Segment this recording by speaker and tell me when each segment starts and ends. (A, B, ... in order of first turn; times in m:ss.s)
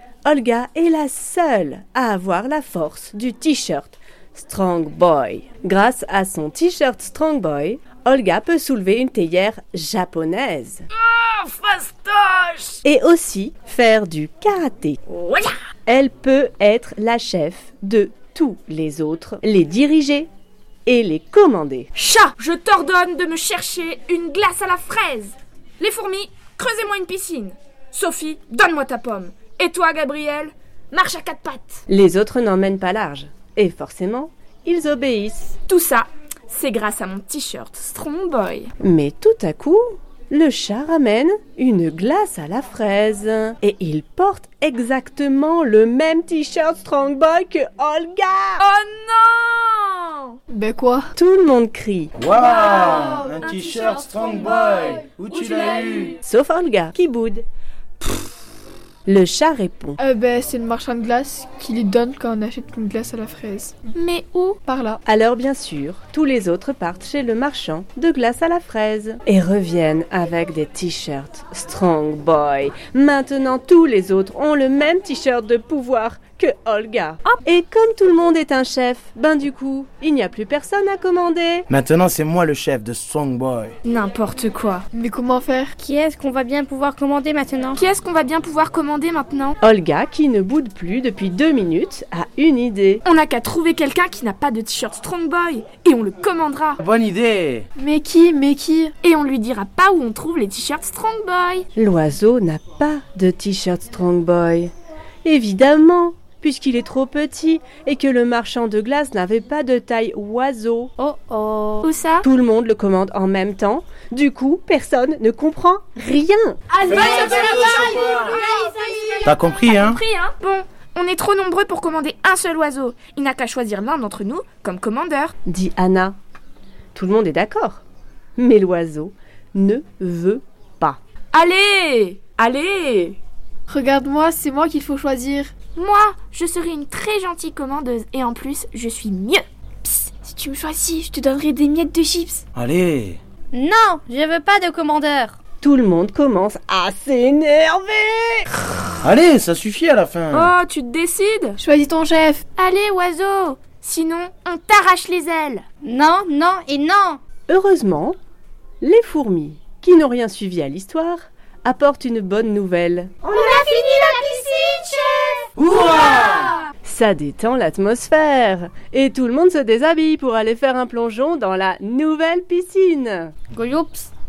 0:00.2-0:10.8 A
0:11.0-0:12.8 B
0:12.8-0:15.0 A
0:15.1-0:15.5 B
0:15.8-0:20.3 A
0:20.8-0:21.9 A
0:21.9-0:31.8 B
0:31.9-0:35.6 A
0:35.7-0:38.7 B
0:38.8-0:48.6 A
0:48.6-0:50.4 B
0:50.5-0:51.1 C
0:51.1-0:52.1 A
0:52.2-0:56.2 D
0:52.4-0:53.5 B
0:56.2-0:57.4 A
0:59.1-1:00.0 A
1:00.0-1:03.9 C
1:03.9-1:04.6 B
1:04.6-1:05.0 C
1:05.0-1:21.7 A
1:21.7-1:23.7 D
1:23.8-1:24.8 B
1:24.9-1:25.7 C
1:25.8-1:27.8 E
1:27.7-1:29.6 B
1:29.6-1:33.0 A
1:33.0-1:36.8 B
1:36.8-1:37.6 D
1:37.8-1:38.9 C
1:39.0-1:41.7 B
1:41.8-1:44.7 A
1:45.2-1:50.9 A
1:51.0-1:51.9 E
1:51.8-1:52.2 B
1:52.2-1:56.6 A
1:56.8-2:05.3 B
1:56.9-1:58.4 D
1:59.2-2:00.0 D
2:05.4-2:06.1 A
2:06.9-2:07.8 A
2:08.4-2:11.0 A
2:11.3-2:13.2 B
2:13.7-2:15.5 C
2:15.7-2:22.4 B
2:22.5-2:23.2 D
2:23.5-2:25.4 E
2:25.6-2:28.5 A
2:29.0-2:30.5 D
2:30.3-2:31.6 B
2:31.6-2:32.4 C
2:32.6-2:35.6 B
2:35.8-2:37.2 E
2:37.5-2:38.2 A
2:38.8-2:43.3 A
2:43.2-2:46.7 B
2:43.4-2:43.7 E
2:45.6-2:46.6 D
2:46.8-2:53.3 A
2:53.5-2:54.1 E